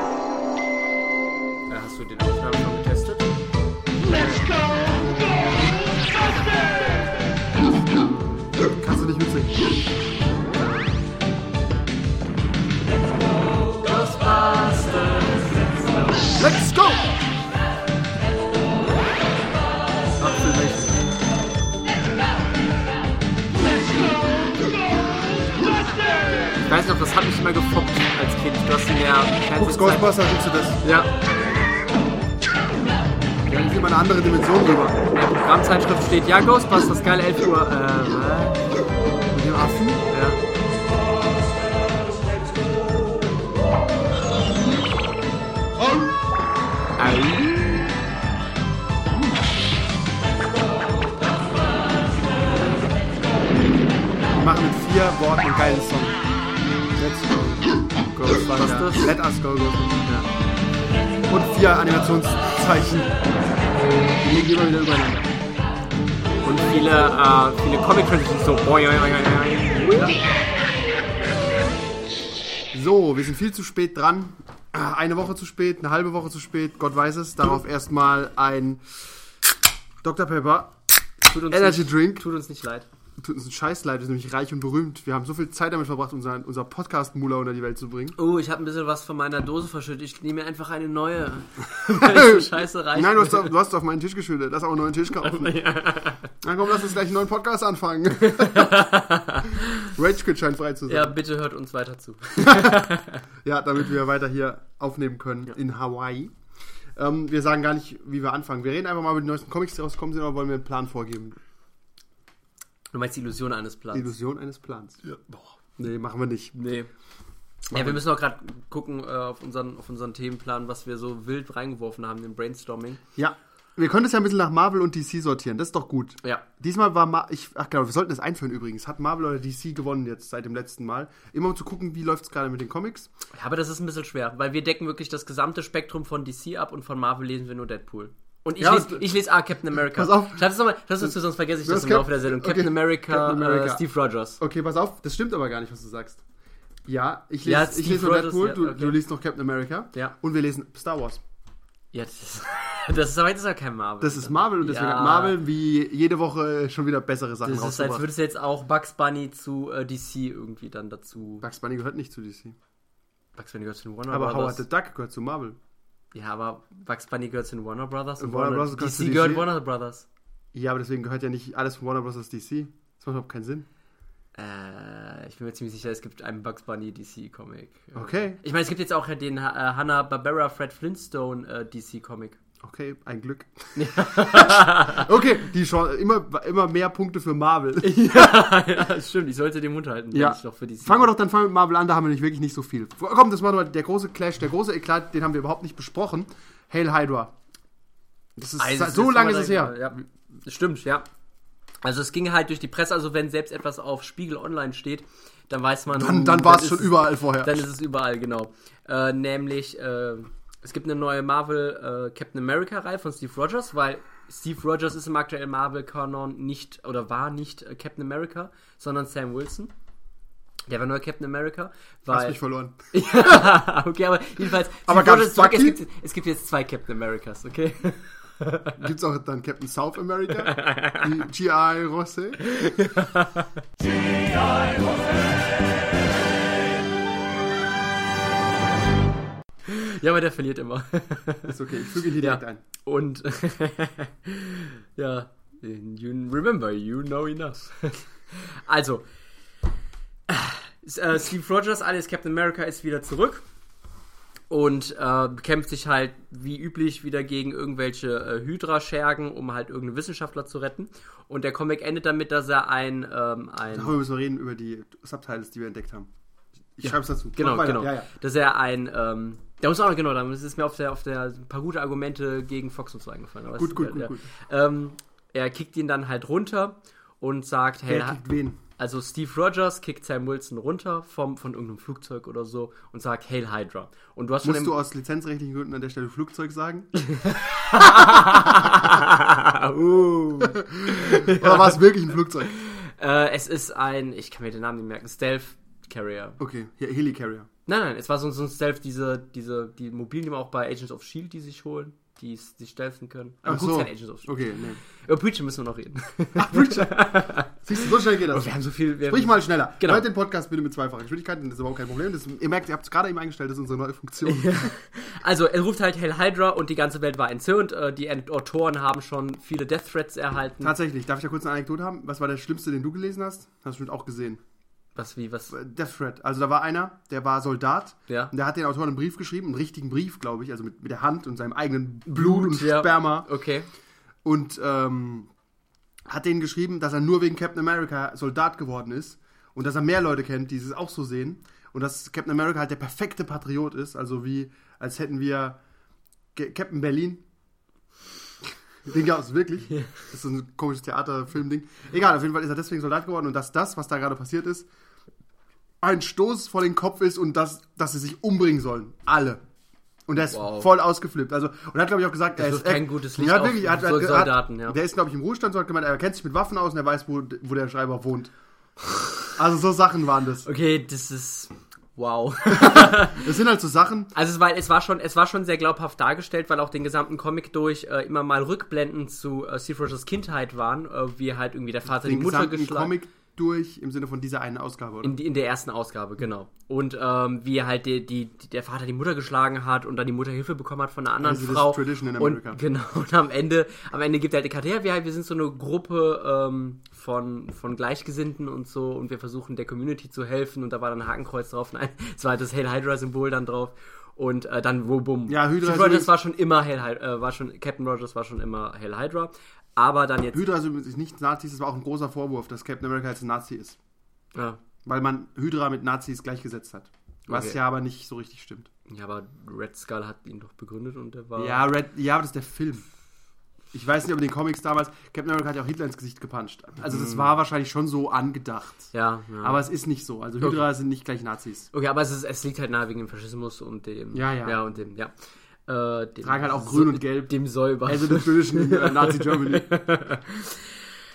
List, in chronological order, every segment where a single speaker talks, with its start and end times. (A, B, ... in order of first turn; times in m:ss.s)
0:01.7-0:03.3 A
0:04.1-0:04.4 A
0:08.0-0:08.4 A
0:08.6-0:09.8 B
0:10.5-0:11.0 A
0:13.6-0:16.4 A
0:16.4-0:17.1 B
0:20.2-0:21.0 A
0:26.7-0:30.2 A
0:29.5-0:30.8 B
0:30.8-0:31.1 A
0:33.5-0:35.0 B
0:35.1-0:38.6 A
0:39.3-0:40.0 B
0:40.1-0:40.4 A
0:47.0-0:48.0 A
0:54.3-0:56.2 B
0:56.9-1:00.3 B
0:58.2-0:59.1 A
1:01.3-1:03.2 B
1:04.2-1:05.4 B
1:06.4-1:10.2 A
1:09.9-1:10.2 B
1:12.7-1:18.9 B
1:20.0-1:20.7 B
1:21.2-1:22.9 A
1:21.5-1:22.2 B
1:23.2-1:28.2 B
1:28.2-1:33.5 A
1:31.8-1:35.6 B
1:35.2-1:36.3 A
1:36.4-1:38.9 B
1:38.3-1:39.9 A
1:39.5-1:41.2 B
1:40.9-1:43.2 A
1:42.4-1:46.3 B
1:47.0-1:51.4 B
1:52.9-1:54.1 A
1:53.9-1:55.0 B
1:55.1-1:55.4 A
1:55.8-1:56.5 B
1:56.5-1:56.9 A
1:57.7-2:03.0 A
1:57.7-1:58.0 B
2:03.2-2:13.1 B
2:13.3-2:24.4 A
2:18.6-2:19.1 B
2:19.7-2:20.4 B
2:21.6-2:23.8 B
2:24.4-2:26.2 B
2:26.8-2:31.2 B
2:27.4-2:29.0 A
2:31.9-2:35.4 A
2:34.0-2:38.1 B
2:37.4-2:41.4 A
2:41.4-2:42.6 B
2:43.4-2:44.6 A
2:44.1-2:45.6 B
2:46.1-2:50.1 A
2:48.2-2:49.5 B
2:50.5-2:53.7 B
2:54.3-3:02.4 A
2:57.9-2:58.4 B
3:02.6-3:08.5 B
3:03.7-3:05.1 A
3:07.8-3:11.1 A
3:10.1-3:17.3 B
3:18.4-3:20.0 B
3:18.6-3:21.0 A
3:21.8-3:39.7 A
3:25.9-3:27.6 B
3:40.7-3:42.4 A
3:42.1-3:43.5 B
3:42.9-3:48.8 A
3:44.4-3:45.8 B
3:48.8-3:52.4 B
3:50.4-3:51.1 A
3:52.4-3:53.5 A
3:59.6-4:01.5 A
4:01.4-4:02.6 B
4:02.2-4:09.0 A
4:10.3-4:13.4 A
4:14.5-4:24.0 A
4:23.7-4:26.1 B
4:26.8-4:28.1 B
4:26.8-4:38.2 A
4:33.6-4:34.3 B
4:37.8-4:38.6 B
4:38.8-4:44.7 A
4:44.4-4:46.9 B
4:47.0-4:51.8 A
4:47.7-4:48.9 B
4:50.4-4:52.5 B
4:52.4-4:56.4 A
4:56.4-4:57.5 B
4:57.7-5:04.3 A
5:03.4-5:04.8 B
5:04.8-5:07.6 A
5:06.4-5:14.7 B
5:08.1-5:10.0 A
5:14.2-5:20.7 A
5:20.6-5:24.4 B
5:25.0-5:25.5 A
5:25.5-5:33.3 B
5:32.0-5:33.7 A
5:34.2-5:35.3 B
5:36.1-5:45.6 B
5:46.3-5:47.2 B
5:48.8-5:54.7 B
5:55.8-5:59.4 B
6:00.1-6:08.3 B
6:00.2-6:00.7 A
6:02.4-6:04.8 A
6:08.8-6:09.3 A
6:09.4-6:10.5 B
6:10.4-6:13.3 A
6:12.5-6:14.1 B
6:14.1-6:22.9 A
6:21.9-6:25.1 B
6:25.0-6:50.4 A
6:31.2-6:32.6 B
6:45.3-6:46.1 B
6:50.3-6:53.8 B
6:54.3-6:54.6 A
6:54.8-6:58.7 B
6:57.3-6:57.6 A
6:58.9-7:01.6 A
7:01.4-7:02.8 B
7:03.7-7:08.9 B
7:06.9-7:07.2 A
7:08.9-7:09.6 A
7:09.4-7:11.7 B
7:11.7-7:15.1 A
7:14.1-7:14.6 B
7:15.7-7:20.8 A
7:16.2-7:19.7 B